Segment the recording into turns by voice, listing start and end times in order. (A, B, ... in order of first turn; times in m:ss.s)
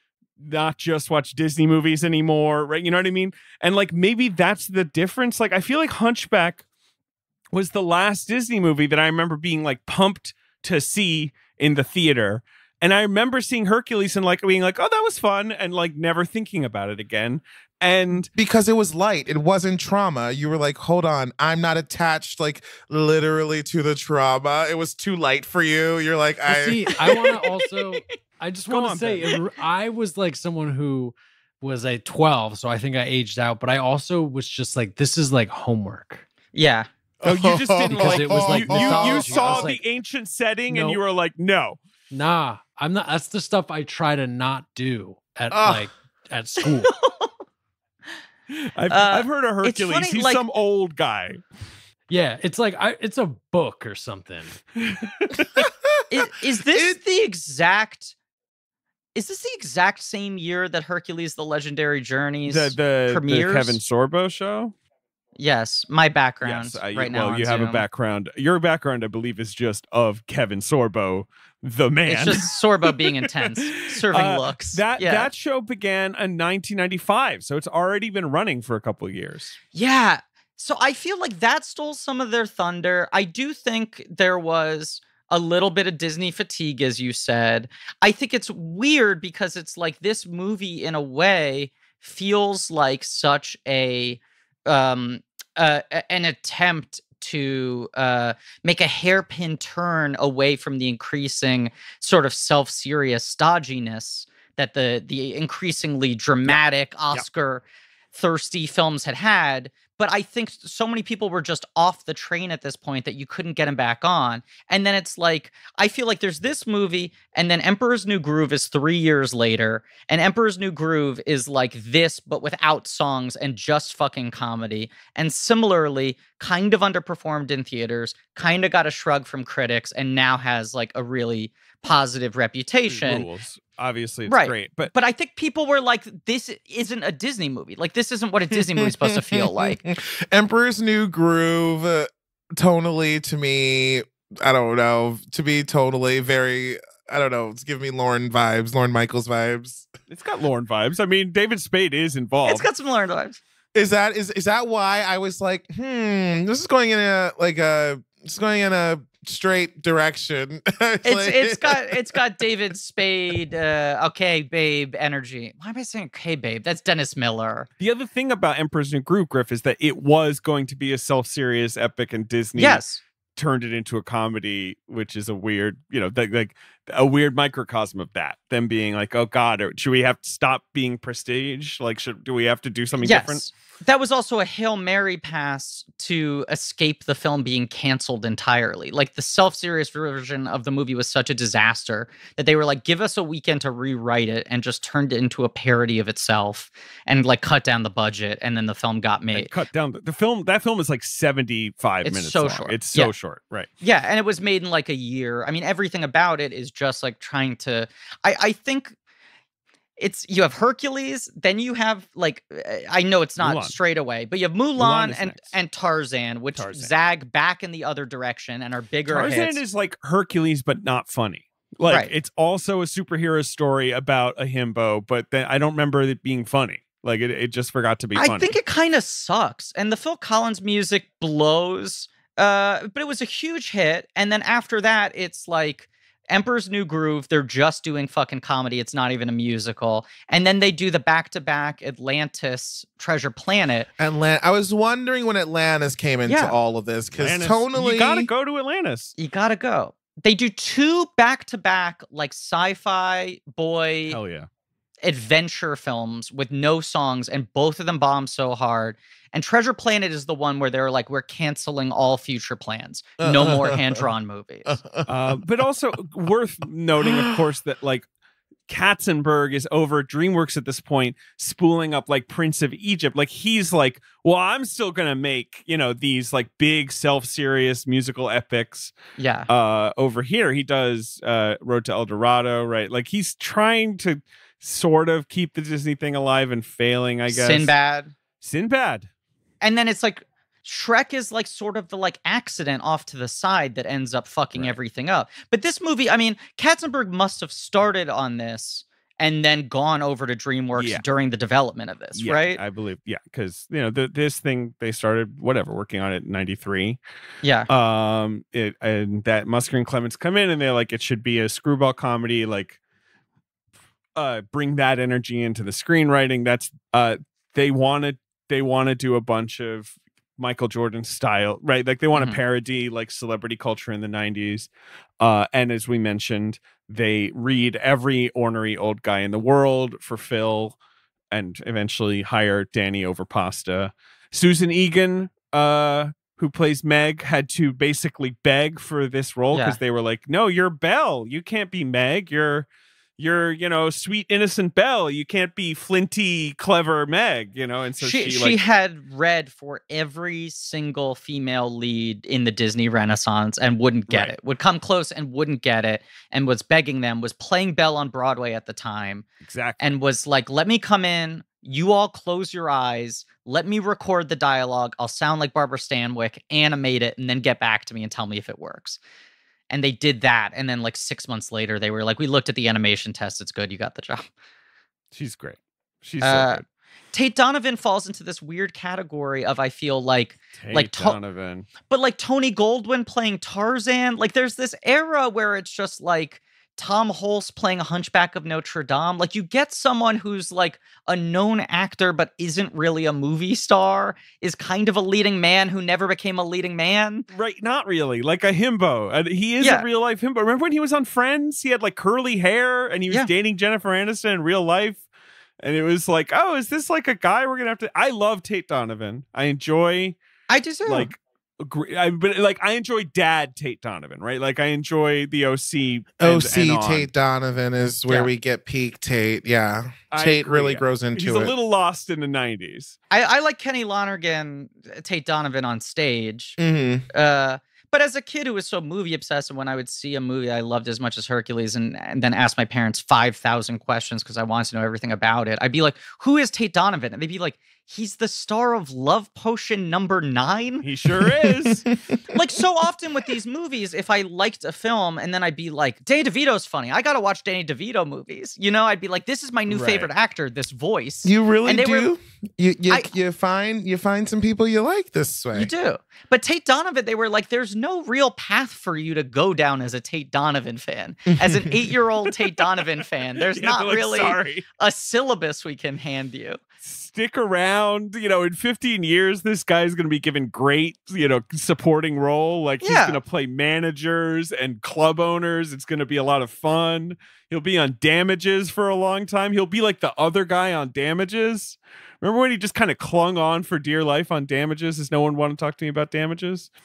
0:00.4-0:06.6 A
0:07.5-0:18.3 A
0:18.4-0:27.3 B
0:26.5-0:36.2 C
0:28.7-0:29.3 A
0:36.5-0:36.9 D
0:37.2-0:39.7 B
0:37.2-0:41.8 A
0:37.8-0:39.8 C
0:40.7-0:41.0 C
0:42.1-0:47.0 C
0:45.5-0:45.9 B
0:46.9-0:47.3 D
0:48.5-0:51.4 A
0:48.9-0:50.4 D
0:52.1-0:54.6 C
0:54.8-0:55.3 A
0:55.4-0:56.2 B
0:56.1-0:58.2 D
0:56.7-0:57.0 B
0:59.2-1:03.8 D
1:02.5-1:04.7 A
1:05.4-1:07.8 D
1:06.4-1:19.6 A
1:12.1-1:15.3 D
1:19.7-2:13.3 D
2:12.9-2:14.9 A
2:14.3-2:19.8 D
2:18.5-2:29.9 B
2:30.1-2:32.7 A
2:32.4-2:33.4 D
2:33.7-2:42.2 B
2:41.0-2:47.7 D
2:47.8-2:52.8 A
2:52.6-2:53.0 D
2:53.4-3:03.5 A
3:03.0-3:19.5 D
3:19.3-3:23.7 A
3:22.0-3:23.1 D
3:23.8-3:29.0 D
3:30.0-3:39.6 D
3:33.4-3:33.8 A
3:34.8-3:35.6 A
3:36.6-3:36.9 A
3:39.1-3:48.6 A
3:48.2-4:03.9 D
4:04.0-4:08.3 B
4:06.3-4:06.6 D
4:07.1-4:09.2 A
4:09.2-4:14.2 D
4:14.1-4:14.5 A
4:15.0-4:24.8 D
4:23.2-4:24.0 B
4:24.7-4:25.4 B
4:25.1-4:28.1 A
4:27.0-4:27.4 B
4:28.7-4:38.9 A
4:39.2-4:39.5 D
4:39.5-4:47.7 A
4:47.3-4:48.1 D
4:48.4-4:49.1 A
4:49.6-5:02.6 D
5:00.8-5:01.0 A
5:02.2-5:07.0 A
5:07.4-5:07.7 D
5:07.7-5:12.8 A
5:14.2-5:24.7 A
5:25.2-5:30.8 A
5:31.3-5:42.7 A
5:39.5-5:39.8 D
5:43.2-5:48.6 A
5:48.0-5:59.3 D
5:54.1-5:54.3 A
5:59.4-5:59.8 A
5:59.8-6:09.0 D
6:09.7-6:14.3 D
6:15.1-6:16.6 A
6:16.2-6:16.6 D
6:17.1-6:21.2 D
6:20.6-6:21.7 A
6:21.9-6:37.2 D
6:37.3-6:45.0 A
6:39.6-6:39.9 D
6:45.6-6:50.2 A
6:50.5-6:51.1 D
6:50.9-6:57.1 A
6:56.2-7:01.5 B
7:00.1-7:03.0 A
7:03.1-7:06.6 D
7:06.6-7:07.1 B
7:07.1-7:20.9 D
7:20.8-7:21.9 A
7:21.9-7:22.3 B
7:22.3-7:32.1 D
7:29.7-7:30.1 A
7:31.2-7:35.7 B
7:35.5-7:46.6 D
7:41.3-7:41.9 B
7:43.4-7:44.6 A
7:46.8-8:06.7 A
7:52.8-7:53.2 D